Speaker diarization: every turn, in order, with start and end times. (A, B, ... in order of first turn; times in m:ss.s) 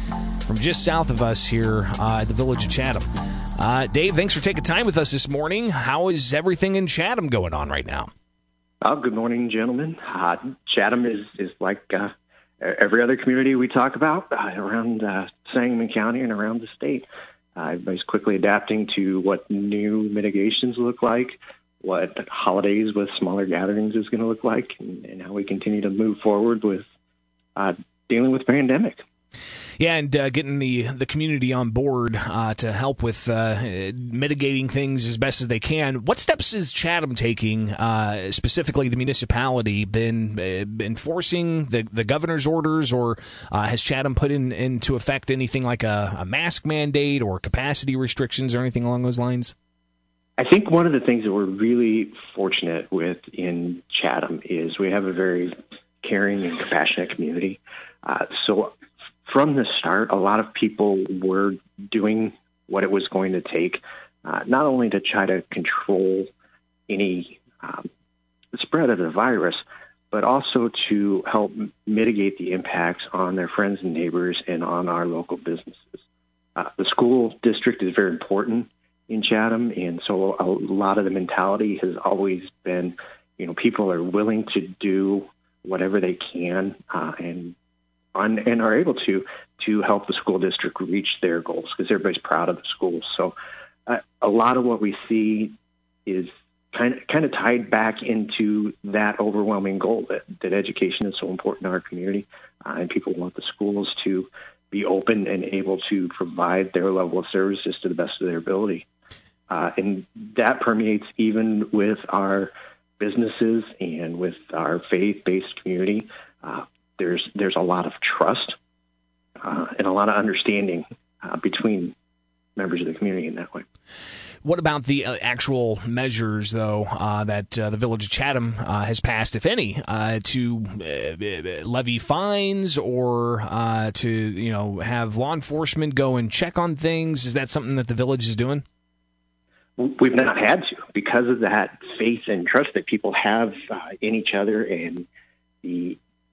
0:00.4-0:03.1 A
0:03.6-0:08.1 A
0:08.8-0:26.9 B
0:27.6-0:29.0 B
0:29.8-0:49.5 A
0:50.4-1:06.3 B
1:06.9-1:07.9 B
1:08.5-1:16.0 B
1:16.6-1:27.6 B
1:28.2-1:33.4 B
1:33.9-1:35.5 B
1:36.1-1:48.9 B
1:49.5-1:58.6 B
1:59.4-2:01.9 B
2:02.6-2:03.6 B
2:04.4-2:18.6 A
2:19.8-2:25.1 B
2:25.6-2:26.0 B